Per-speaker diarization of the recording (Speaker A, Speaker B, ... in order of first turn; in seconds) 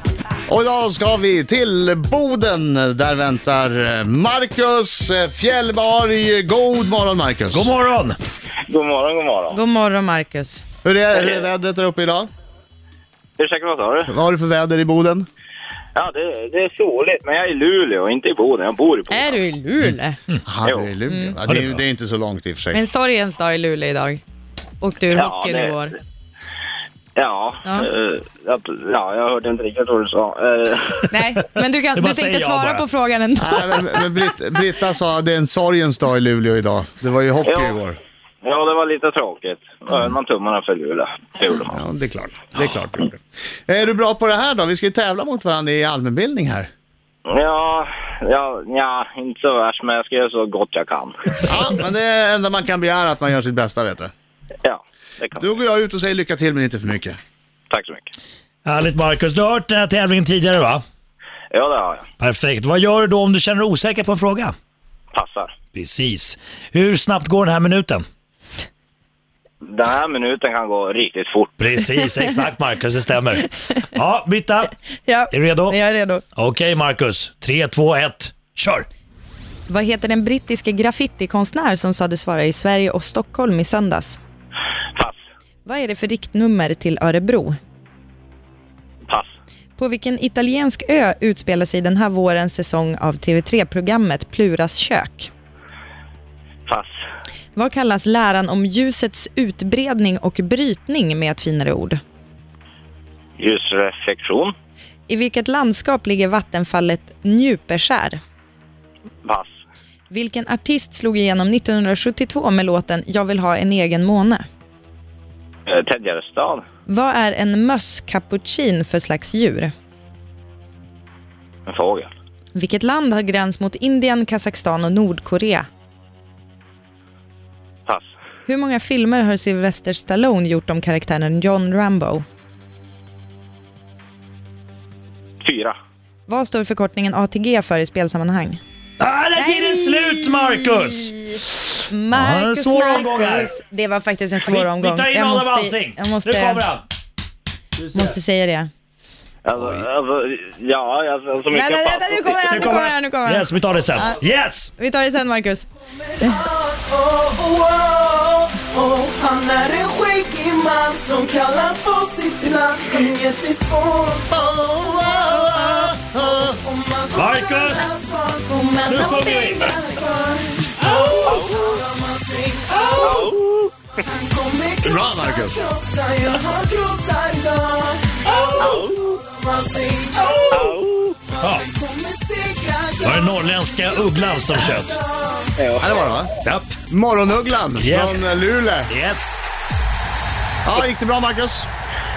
Speaker A: 0.5-7.7, 10.8-12.3, 14.1-15.3, 20.5-22.8, 33.4-38.0, 41.7-46.7, 51.5-54.1, 55.4-57.2, 164.3-166.4, 174.8-175.6, 185.8-186.3, 186.9-188.9, 190.7-191.7
Speaker B: 7.5-8.2, 21.5-21.8, 31.9-32.9, 58.6-60.8, 62.2-64.5, 65.7-68.1, 71.6-74.7, 75.3-75.8, 76.4-78.9, 139.0-141.3, 142.1-143.5, 144.4-146.8, 147.8-148.2, 149.6-149.8, 152.5-154.7, 167.2-168.0, 168.9-169.7, 181.4-181.7, 183.0-185.0, 186.4-186.8, 187.7-188.3, 188.9-189.4
Speaker C: 8.7-9.6, 11.1-11.5, 13.4-14.1, 15.9-19.4, 20.6-20.9, 25.1-25.8, 27.2-31.1, 37.5-37.8, 38.4-41.8, 47.3-51.4, 54.6-55.5, 57.7-58.1, 61.5-62.1, 65.1-65.5, 69.7-71.5, 103.4-104.5, 115.7-116.6, 121.7-122.1, 135.4-135.8, 149.4-152.8, 171.2-171.8, 173.0-173.7, 178.6-179.2, 180.5-181.2, 185.6-186.1
Speaker D: 9.5-10.6, 19.1-20.2, 21.1-21.4, 22.7-24.2, 24.8-25.9, 31.1-34.1, 75.0-76.2, 79.7-84.2, 85.7-87.6, 89.8-95.3, 97.5-102.0, 105.1-108.2, 110.1-114.4, 116.9-119.7, 122.5-125.7, 128.5-132.2, 136.3-138.6, 139.3-146.7, 147.9-148.7, 151.5-154.2, 154.8-155.7
Speaker E: 156.2-173.3, 174.0-180.8, 181.4-185.6